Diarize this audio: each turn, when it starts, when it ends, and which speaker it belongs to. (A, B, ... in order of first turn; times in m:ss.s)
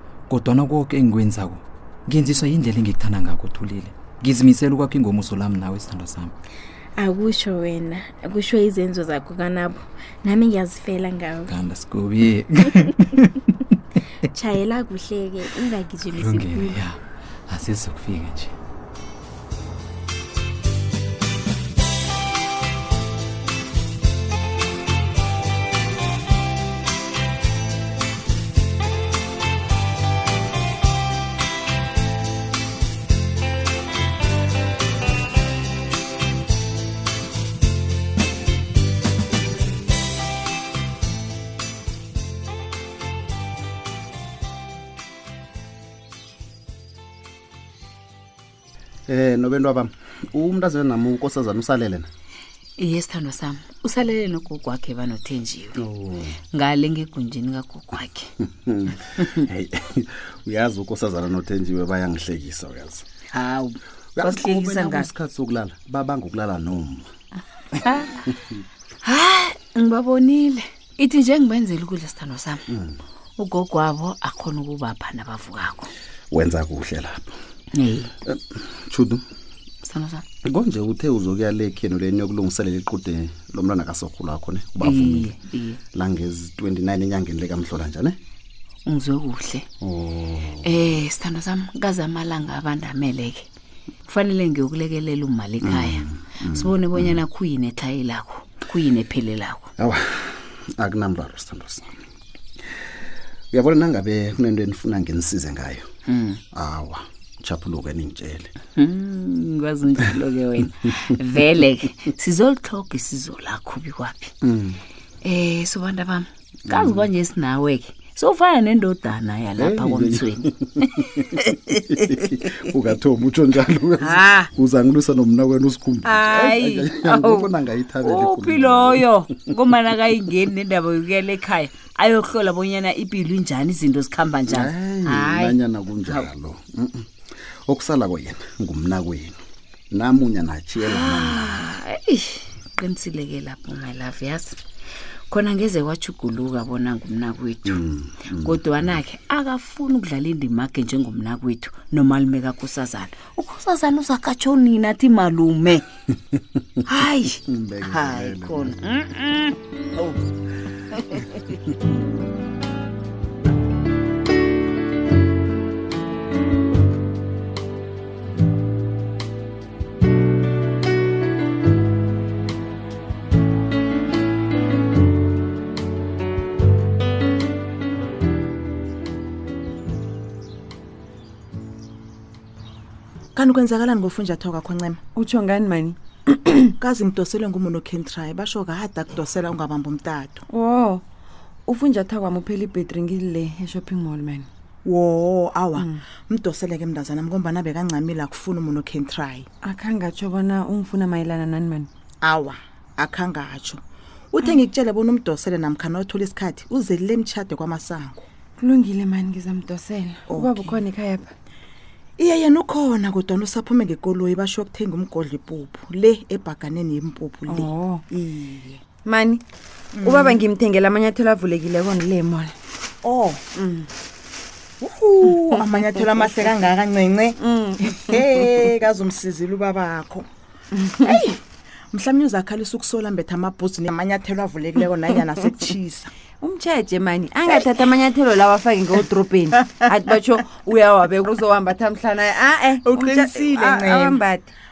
0:00.3-0:06.3 A
0:07.0-0:11.5 B
0:11.5-0:12.9 A
0:14.3-0:16.8 B
0:16.2-0:17.0 A
0:17.5-0:18.5 A
0:49.1-0:52.1 C
0:52.8-0:55.8 D
0:55.8-0:56.4 C
0:56.5-0:58.3 D
0:58.4-1:03.1 C
1:03.3-1:05.1 D
1:04.2-1:07.1 C
1:09.0-1:12.6 D
1:12.7-1:13.0 C
1:13.4-1:15.9 D
1:16.3-1:17.4 C
1:17.7-1:18.1 D
1:18.2-1:19.2 C
1:19.8-1:20.2 D
1:20.4-1:25.4 C
1:24.8-1:25.8 D
1:25.9-1:28.2 C
1:28.9-1:29.7 D
1:29.8-1:30.9 C
1:30.6-1:33.4 D
1:34.1-1:39.7 D
1:35.6-1:37.2 C
1:39.8-1:42.0 C
1:43.5-1:45.9 C
1:46.1-1:46.4 D
1:46.5-1:48.5 C
1:48.8-1:54.3 D
1:54.4-1:54.8 C
1:55.2-2:00.4 D
1:56.7-1:57.1 C
1:59.6-2:09.5 C
2:04.1-2:04.4 D
2:06.1-2:06.5 E
2:08.1-2:15.6 D
2:14.5-2:17.1 C
2:17.7-2:19.4 C
2:19.9-2:21.6 C
2:20.8-2:24.6 D
2:25.3-2:27.8 D
2:27.6-2:29.0 C
2:28.4-2:35.9 D
2:36.9-2:40.1 D
2:37.5-2:38.8 C
3:03.4-3:05.0 F
3:05.2-3:06.8 E
3:06.8-3:10.4 F
3:10.5-3:11.0 E
3:11.7-3:14.5 E
3:14.8-3:19.5 F
3:15.8-3:16.0 E
3:19.6-3:21.9 E
3:22.2-3:23.8 F
3:24.3-3:28.2 F
3:28.6-3:31.3 E
3:30.3-3:30.8 F
3:32.2-3:38.8 F
3:37.5-3:38.0 E
3:39.0-3:39.4 E
3:40.0-3:40.4 F
3:40.0-3:42.6 E
3:43.0-3:43.4 F
3:43.6-3:43.9 E
3:44.8-3:50.3 F
3:45.3-3:46.6 E
3:47.4-3:48.4 E
3:50.7-3:51.2 E
3:51.0-3:51.4 F
3:51.9-3:56.1 F
3:56.4-4:04.5 E
4:02.8-4:04.2 F